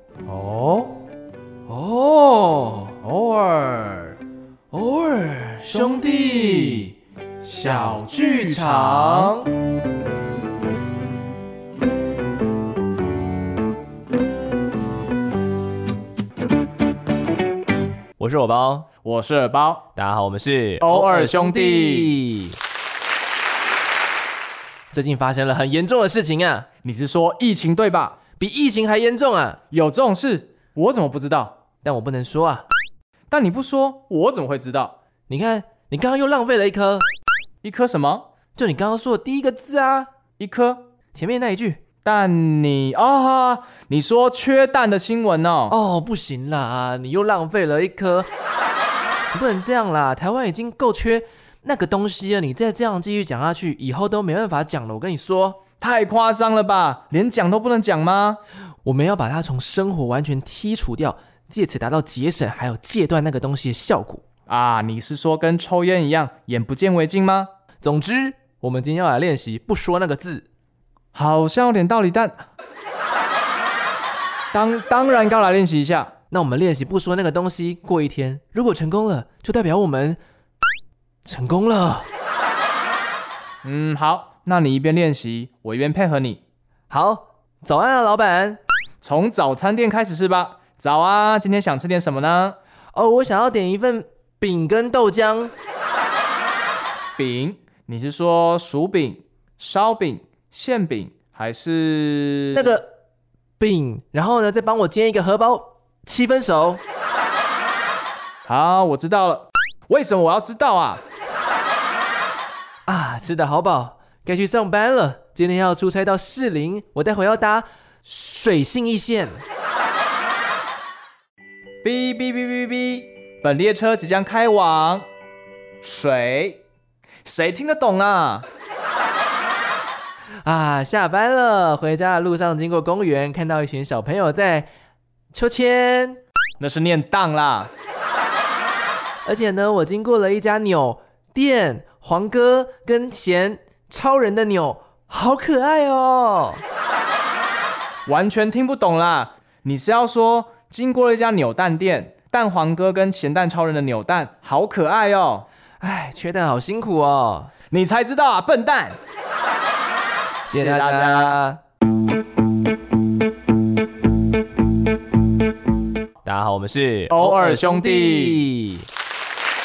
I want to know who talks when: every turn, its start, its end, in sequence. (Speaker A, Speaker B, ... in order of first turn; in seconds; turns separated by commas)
Speaker A: 0.3-1.0, Speaker B: 1.7-3.0, Speaker A: 3.0-4.2, Speaker B: 4.7-7.0, Speaker A: 7.4-9.4, Speaker B: 7.5-9.5, Speaker B: 18.2-18.9, Speaker A: 19.0-19.9, Speaker B: 20.0-22.6, Speaker A: 20.8-22.2, Speaker B: 24.9-26.7, Speaker A: 26.8-28.2, Speaker B: 28.4-29.6, Speaker A: 29.7-31.6, Speaker B: 31.8-32.7, Speaker A: 33.3-35.0, Speaker B: 35.3-37.1, Speaker A: 37.6-38.3, Speaker B: 38.6-40.1, Speaker A: 40.4-40.9, Speaker B: 41.1-41.8, Speaker A: 42.0-45.8, Speaker B: 45.7-48.3, Speaker B: 49.3-55.6, Speaker A: 55.8-58.4, Speaker B: 58.9-64.2, Speaker A: 64.5-67.5, Speaker B: 67.8-70.5, Speaker A: 71.1-72.4, Speaker A: 74.5-76.1, Speaker B: 76.3-80.2, Speaker B: 81.2-82.1, Speaker A: 83.6-86.4, Speaker B: 86.9-88.6, Speaker A: 89.0-92.6, Speaker B: 92.9-95.5, Speaker A: 97.2-102.8, Speaker B: 102.5-102.9, Speaker B: 103.6-106.8, Speaker A: 108.5-111.0, Speaker B: 112.9-119.4, Speaker A: 121.8-125.1, Speaker A: 125.8-126.6, Speaker A: 127.2-128.5, Speaker B: 130.4-134.7, Speaker B: 135.3-136.2, Speaker A: 136.6-137.7, Speaker B: 139.2-146.6, Speaker A: 148.1-155.5, Speaker B: 155.8-157.5, Speaker A: 157.7-159.0, Speaker B: 160.5-161.6, Speaker A: 160.6-161.4, Speaker B: 166.2-168.9, Speaker A: 167.1-168.4